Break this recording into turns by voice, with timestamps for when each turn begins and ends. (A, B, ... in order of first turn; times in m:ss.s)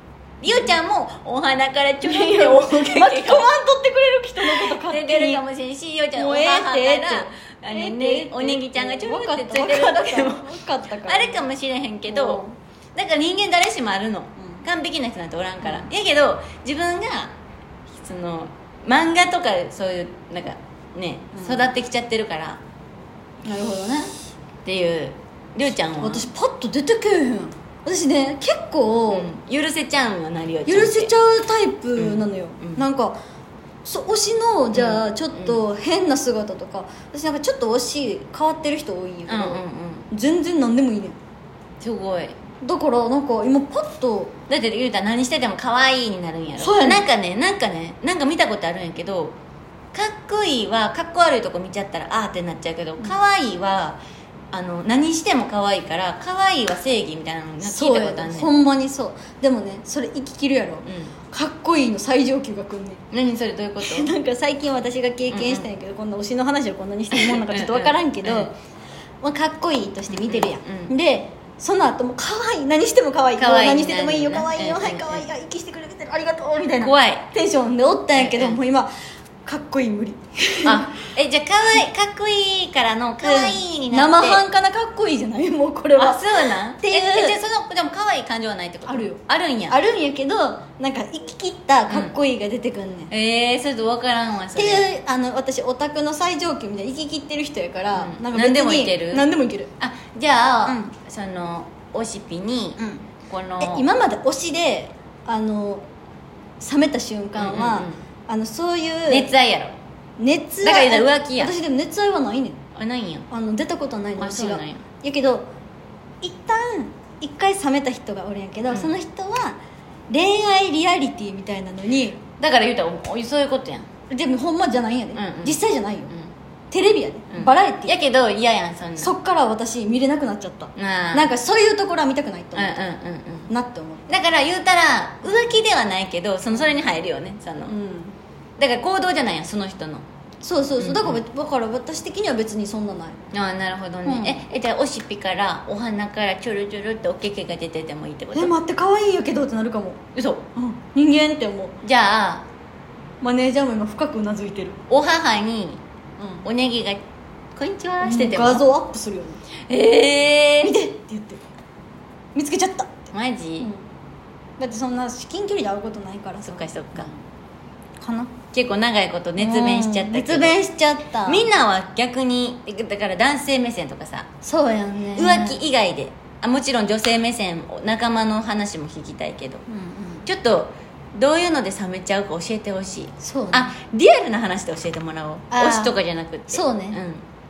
0:00.4-0:03.5 A
0:02.0-0:05.4 B
0:04.4-0:10.5 A
0:06.2-0:11.4 B
0:11.0-0:12.4 A
0:12.1-0:12.6 B
0:12.9-0:17.3 A
0:15.6-0:15.9 B
0:18.0-0:22.6 A
0:21.3-0:21.7 B
0:23.4-0:24.1 B
0:24.6-0:26.2 A
0:26.0-0:29.3 B
0:29.1-0:31.1 A
0:30.6-0:33.2 B
0:31.9-0:32.8 A
0:33.8-0:41.2 B
0:34.7-0:35.6 A
0:39.3-0:40.1 A
0:41.8-0:42.4 A
0:42.6-0:44.3 B
0:44.5-0:49.4 A
0:46.6-0:47.0 B
0:49.9-0:54.0 A
0:54.5-0:58.5 A
0:57.6-1:03.0 B
1:00.8-1:01.1 A
1:03.1-1:04.1 A
1:03.8-1:08.6 B
1:05.3-1:05.7 A
1:07.1-1:08.5 A
1:09.2-1:18.9 B
1:10.1-1:10.9 A
1:13.4-1:15.3 A
1:16.8-1:17.3 A
1:18.2-1:18.6 A
1:19.4-1:20.9 B
1:20.6-1:24.4 A
1:23.2-1:26.2 B
1:25.9-1:29.8 A
1:26.8-1:27.4 B
1:28.9-1:33.1 B
1:31.9-1:32.1 A
1:33.1-1:34.9 A
1:34.5-1:39.7 B
1:37.9-1:39.3 A
1:39.8-1:43.8 A
1:40.6-1:40.9 B
1:42.8-1:43.0 B
1:43.6-1:45.8 B
1:46.6-1:49.3 B
1:47.4-1:48.0 A
1:49.1-1:49.8 A
1:50.2-1:52.6 B
1:50.6-1:51.6 A
1:52.7-1:53.3 A
1:53.3-1:55.4 B
1:54.2-1:54.8 A
1:56.2-1:59.6 B
2:00.1-2:02.2 B
2:02.4-2:03.9 A
2:04.1-2:06.1 B
2:05.1-2:05.6 A
2:06.7-2:07.9 B
2:07.3-2:09.1 A
2:09.0-2:12.8 B
2:10.7-2:11.3 A
2:12.5-2:13.5 A
2:13.5-2:14.2 B
2:14.1-2:17.7 A
2:16.6-2:16.8 B
2:17.7-2:18.2 B
2:18.6-2:20.0 A
2:20.4-2:23.2 B
2:20.8-2:21.2 A
2:23.3-2:28.5 A
2:24.0-2:24.4 B
2:28.3-2:30.0 B
2:30.1-2:30.4 A
2:30.6-2:31.7 B
2:31.8-2:32.4 A
2:33.2-2:34.8 B
2:34.9-2:35.8 A
2:36.2-2:36.4 B
2:36.4-2:37.0 A
2:37.5-2:38.6 A
2:38.0-2:39.4 B
2:39.7-2:40.7 A
2:40.6-2:41.4 B
2:42.3-2:43.8 B
2:43.1-2:43.7 A
2:44.6-2:47.1 B
2:46.4-2:47.1 A
2:48.0-2:48.3 B
2:48.5-2:50.5 A
2:49.4-2:51.5 B
2:51.2-2:54.3 A
2:54.4-2:55.6 B
2:55.1-2:59.6 A
2:59.7-3:00.2 B
3:00.2-3:07.2 A
3:03.2-3:03.7 B
3:05.5-3:05.9 B
3:06.5-3:07.0 B